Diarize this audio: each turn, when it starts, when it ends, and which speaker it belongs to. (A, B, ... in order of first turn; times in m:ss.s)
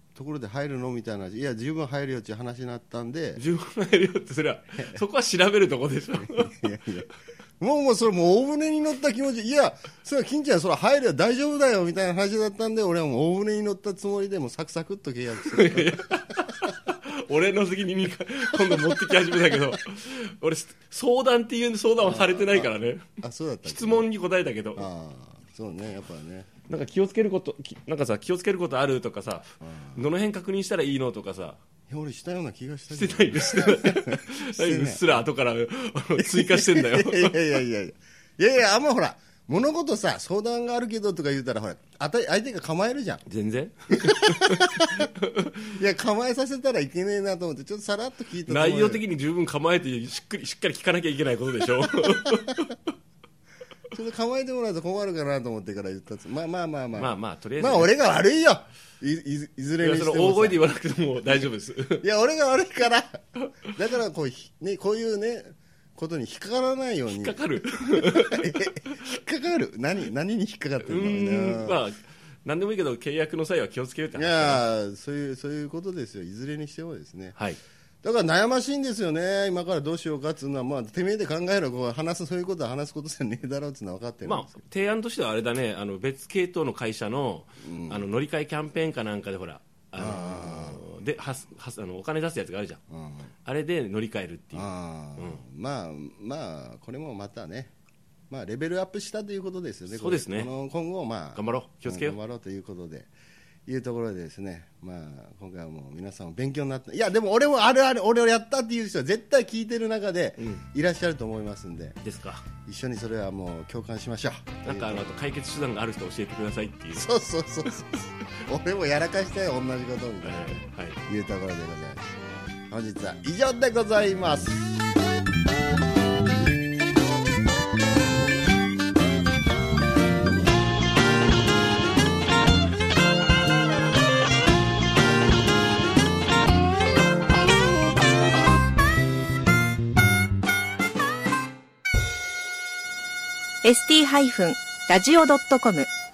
0:00.1-0:03.4 A
0:03.4-0:06.6 B
0:06.1-0:16.4 A
0:15.4-0:23.0 B
0:18.5-0:19.6 A
0:22.0-0:24.1 A
0:23.6-0:24.9 B
0:24.8-0:26.5 A
0:26.7-0:31.6 B
0:29.6-0:30.0 A
0:31.9-0:35.2 A
0:32.9-0:37.5 B
0:36.2-0:43.2 A
0:43.3-0:45.7 B
0:43.9-0:45.1 A
0:45.6-0:49.0 A
0:48.5-0:52.8 B
0:52.0-0:52.4 A
0:53.9-1:00.7 A
0:57.0-0:57.9 B
0:59.8-1:02.1 B
1:01.2-1:01.5 A
1:02.0-1:11.8 A
1:07.1-1:09.0 B
1:10.8-1:14.6 B
1:14.1-1:17.4 A
1:18.0-1:24.5 A
1:24.2-1:32.8 B
1:27.6-1:28.1 A
1:30.0-1:31.0 A
1:32.9-1:33.3 A
1:33.4-1:35.4 B
1:34.5-1:37.7 A
1:38.3-1:43.1 A
1:39.9-1:40.5 B
1:41.4-1:42.2 B
1:43.7-1:52.0 A
1:50.4-1:50.6 B
1:52.0-1:52.4 B
1:52.6-1:55.1 A
1:54.6-1:57.1 B
1:56.9-2:04.7 A
2:00.2-2:01.0 B
2:23.6-2:25.9 C